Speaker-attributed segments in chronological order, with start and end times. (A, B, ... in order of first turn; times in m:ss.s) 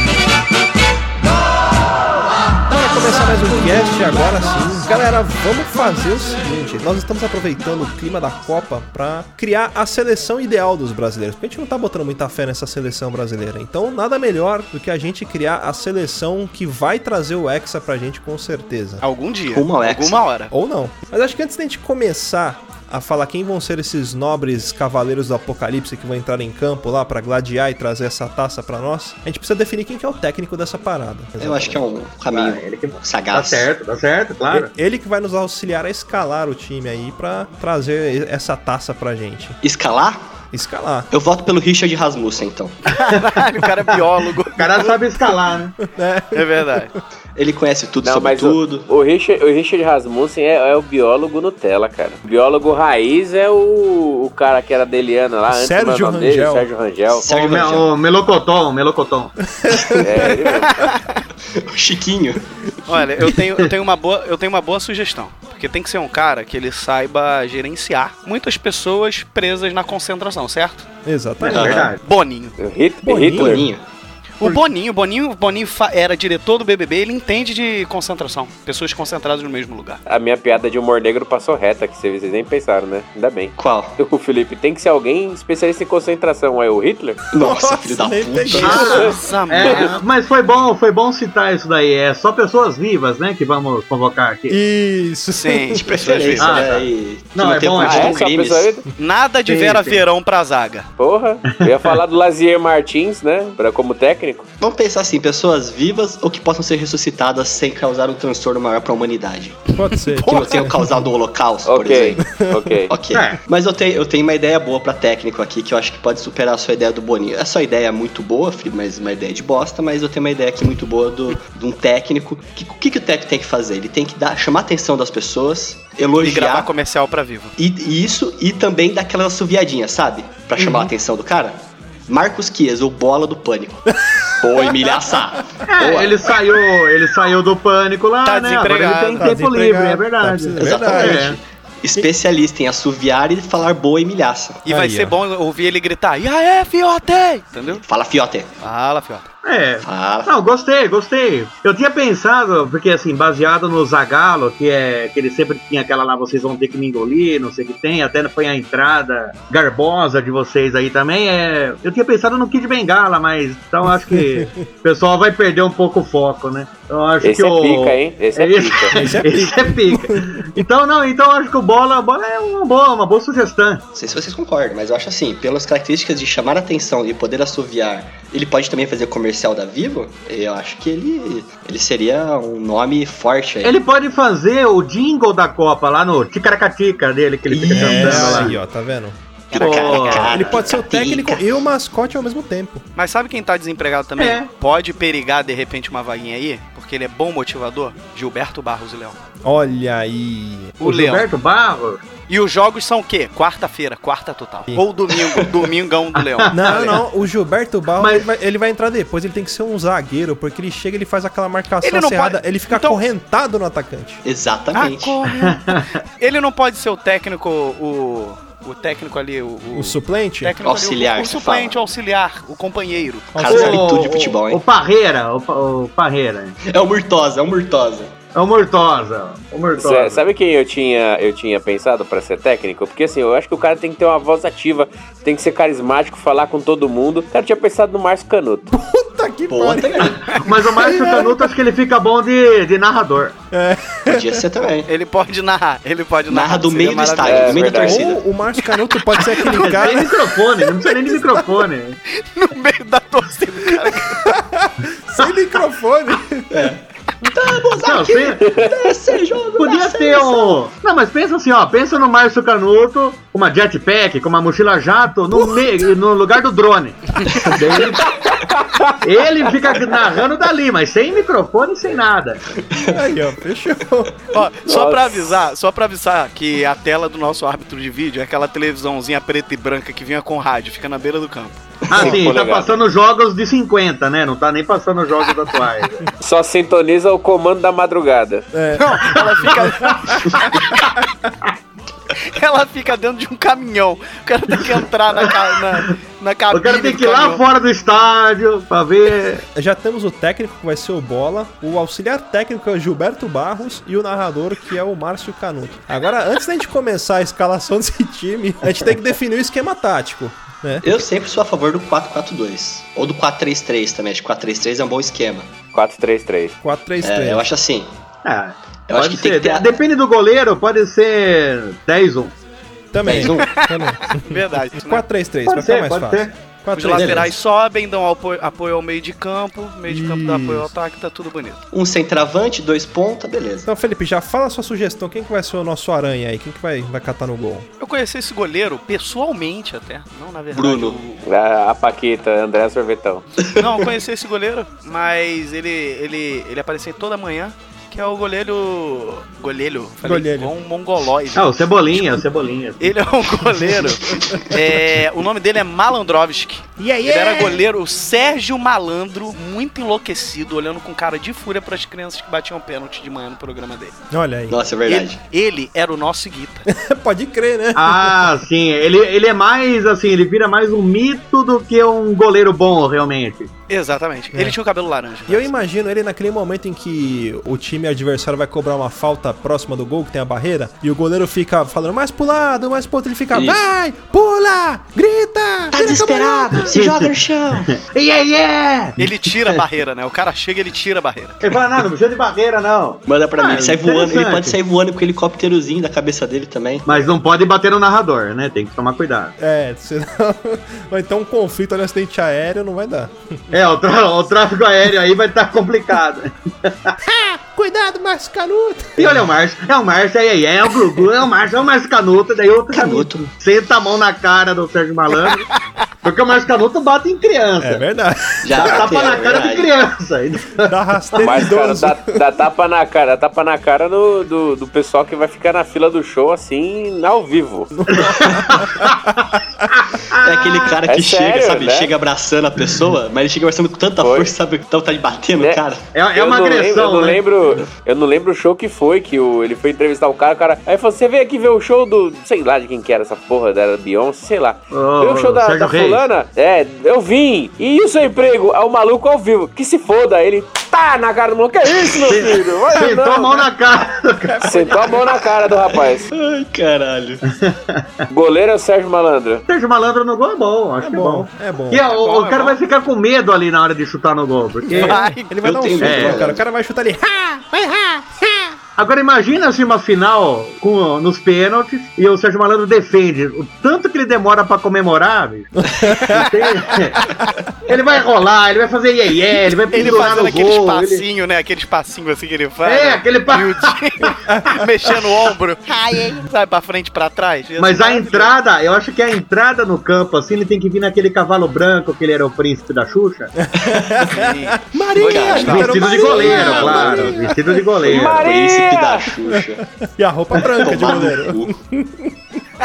0:02.7-0:19.0 A
0:19.0-0:20.5 B
0:19.5-0:20.2 C
0:20.5-0:31.8 A
0:31.4-0:33.7 C
0:32.3-0:34.7 D
0:34.5-0:39.6 A
0:39.6-0:40.3 C
0:40.5-0:41.1 A
0:41.1-0:43.0 C
0:42.9-0:45.0 B
0:44.6-0:45.8 D
0:45.8-0:46.9 A
0:46.3-0:46.9 B
0:47.4-0:48.9 C
0:48.0-0:57.6 E
0:55.5-0:56.7 A
0:57.1-0:57.9 C
0:57.3-0:59.3 D
0:59.5-1:00.4 A
1:00.0-1:00.8 E
1:00.6-1:01.2 B
1:01.5-1:02.7 C
1:02.8-1:10.9 B
1:11.0-1:11.9 A
1:11.4-1:11.9 C
1:11.4-1:12.0 D
1:12.0-1:12.6 B
1:12.6-1:13.7 E
1:13.0-1:13.7 A
1:13.3-1:13.8 C
1:14.4-1:20.0 B
1:20.1-1:27.2 E
1:23.6-1:24.0 C
1:27.3-1:29.1 C
1:27.3-1:29.2 A
1:28.6-1:34.6 D
1:28.9-1:29.9 B
1:29.6-1:29.9 E
1:34.5-1:36.0 A
1:35.4-1:36.6 B
1:35.8-1:38.8 C
1:36.4-1:38.3 D
1:37.8-1:38.8 E
1:39.0-1:40.9 B
1:39.5-1:40.0 D
1:41.0-1:44.5 E
1:41.5-1:42.0 D
1:44.6-1:49.6 C
1:49.7-1:51.0 A
1:49.9-1:50.7 B
1:50.3-1:52.2 C
1:51.6-1:52.9 E
1:52.2-1:52.8 A
1:52.9-2:06.7 C
1:53.1-1:53.4 D
2:06.2-2:07.5 B
2:07.6-2:13.8 C
2:14.1-2:15.1 A
2:14.4-2:16.4 C
2:15.6-2:21.4 D
2:18.2-2:19.3 B
2:19.2-2:21.3 A
2:20.6-2:24.6 C
2:24.6-2:27.8 B
2:24.7-2:25.2 A
2:27.8-2:28.5 C
2:28.6-2:29.3 B
2:29.4-2:53.8 D
2:29.8-2:30.3 C
2:44.1-2:44.5 A
2:47.2-2:49.0 E
2:48.9-2:50.5 A
2:53.9-3:03.8 C
3:03.6-3:08.6 D
3:07.5-3:08.6 C
3:07.7-3:09.2 A
3:09.5-3:10.6 B
3:09.5-3:10.5 D
3:09.5-3:11.5 C
3:10.3-3:12.8 A
3:13.0-3:19.2 B
3:14.2-3:14.5 D
3:19.4-3:20.8 A
3:20.8-3:21.3 B
3:20.8-3:22.0 D
3:22.3-3:27.0 B
3:26.2-3:26.8 D
3:26.5-3:34.2 A
3:28.0-3:28.3 D
3:31.8-3:33.0 B
3:34.2-3:35.2 C
3:34.7-3:43.4 B
3:35.3-3:36.0 D
3:39.7-3:40.6 A
3:40.6-3:41.9 C
3:43.3-3:43.8 A
3:43.4-3:44.6 C
3:43.5-3:46.6 D
3:46.6-3:48.2 C
3:48.3-3:50.2 D
3:49.8-3:58.7 E
3:58.7-4:01.5 A
3:59.5-4:00.4 C
4:00.3-4:03.4 D
4:03.5-4:04.4 A
4:04.1-4:04.9 C
4:04.8-4:07.9 B
4:06.3-4:08.2 C
4:07.2-4:08.1 E
4:07.8-4:10.2 A
4:09.1-4:10.2 B
4:09.5-4:12.0 D
4:12.2-4:14.3 B
4:13.7-4:16.7 A
4:16.5-4:20.6 C
4:17.8-4:18.6 D
4:19.6-4:28.2 D
4:25.3-4:25.8 A
4:27.4-4:27.7 C
4:28.4-4:28.9 E
4:29.0-4:32.4 D
4:32.5-4:33.0 C
4:32.8-4:34.2 A
4:34.3-4:41.6 B
4:34.6-4:35.2 E
4:41.9-4:46.0 D
4:41.9-4:42.8 E
4:46.2-4:48.5 E
4:48.5-4:50.4 A
4:48.8-4:51.0 B
4:52.1-4:57.4 B
4:55.2-4:55.9 D
4:56.5-4:59.4 D
4:59.5-5:10.9 A
5:10.8-5:15.5 C
5:15.7-5:16.6 E
5:16.6-5:17.4 A
5:17.0-5:17.9 C
5:18.2-5:22.3 D
5:18.9-5:19.8 C
5:22.9-5:27.3 A
5:23.0-5:23.6 C
5:23.1-5:25.0 B
5:25.4-5:26.3 D
5:26.7-5:31.6 B
5:26.9-5:27.3 C
5:29.9-5:30.7 A
5:31.7-5:33.7 C
5:33.6-5:37.7 A
5:37.8-5:41.2 B
5:40.5-5:41.0 C
5:41.2-5:43.2 E
5:43.5-5:52.2 B
5:50.0-5:50.5 A
5:51.3-5:52.9 D
5:52.8-6:04.0 B
5:53.6-5:54.6 A
5:56.8-5:57.6 A
6:04.1-6:04.6 A
6:04.5-6:05.2 C
6:04.8-6:06.6 B
6:06.7-6:08.3 A
6:07.7-6:13.5 D
6:13.7-6:15.5 B
6:15.3-6:26.8 A
6:23.3-6:23.6 C
6:25.7-6:27.8 C
6:26.7-6:27.1 D
6:27.7-6:29.6 D
6:29.0-6:31.4 B
6:31.4-6:34.6 D
6:33.1-6:37.1 C
6:36.8-6:39.3 D
6:39.4-6:43.5 A
6:43.5-6:46.9 D
6:47.0-6:49.2 A
6:49.0-6:55.5 D
6:52.7-6:53.3 C
6:56.0-6:57.8 D
6:57.6-6:58.8 A
6:58.4-6:59.7 C
6:58.5-7:01.4 D
7:00.7-7:02.2 A
7:01.2-7:07.8 E
7:07.8-7:09.0 A
7:07.9-7:10.8 D
7:10.2-7:15.9 C
7:10.9-7:11.9 E
7:14.0-7:14.3 E
7:15.4-7:33.4 E
7:15.9-7:17.3 D
7:24.7-7:26.1 D
7:32.0-7:34.5 D
7:34.4-7:36.1 E
7:35.4-7:37.2 C
7:37.3-7:37.8 D
7:38.1-7:39.4 E
7:39.5-7:45.0 D
7:40.8-7:41.9 A
7:41.9-7:42.6 B
7:44.7-7:45.4 B
7:44.7-7:48.5 A
7:45.4-7:46.4 C
7:45.8-7:46.3 D
7:48.8-7:57.1 D
7:55.6-7:56.4 A
7:56.1-7:56.7 B
7:57.6-8:01.0 D
7:59.7-8:08.3 B
8:02.6-8:03.7 D
8:04.3-8:04.6 A
8:07.6-8:13.3 D
8:13.4-8:17.7 A
8:13.6-8:14.1 C
8:14.0-8:16.6 B
8:15.0-8:17.2 C
8:15.4-8:18.3 D
8:17.8-8:19.6 C
8:17.8-8:19.1 E
8:19.3-8:22.4 A
8:20.4-8:21.5 C